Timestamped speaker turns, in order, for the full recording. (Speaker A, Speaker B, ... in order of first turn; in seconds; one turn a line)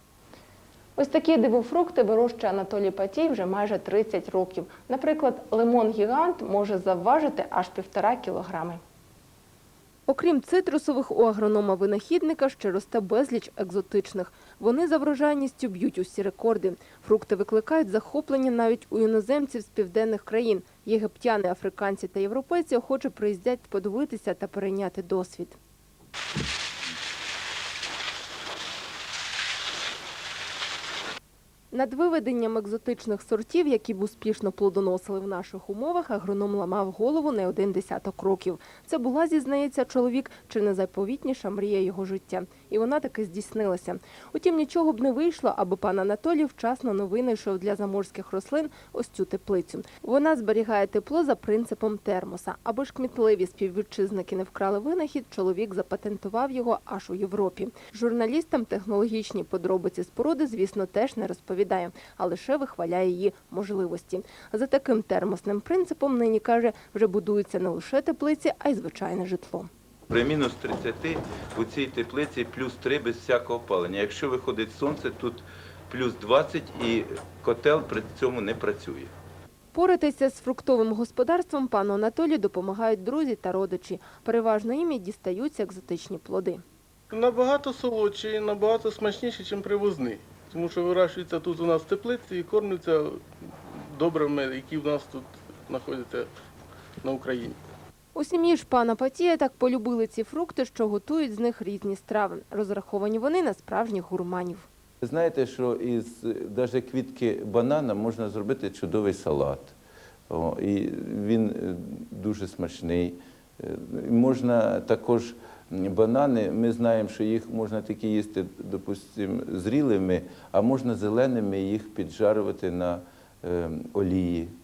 Speaker A: 1.0-8.8
Speaker A: 10.1-25.6
Speaker A: 31.7-69.7
Speaker B: 70.1-79.1
Speaker A: 79.7-86.6
Speaker C: 87.1-96.3
Speaker C: 97.0-97.6
Speaker A: 98.1-104.7
Speaker B: 105.0-109.7
Speaker B: 110.3-124.5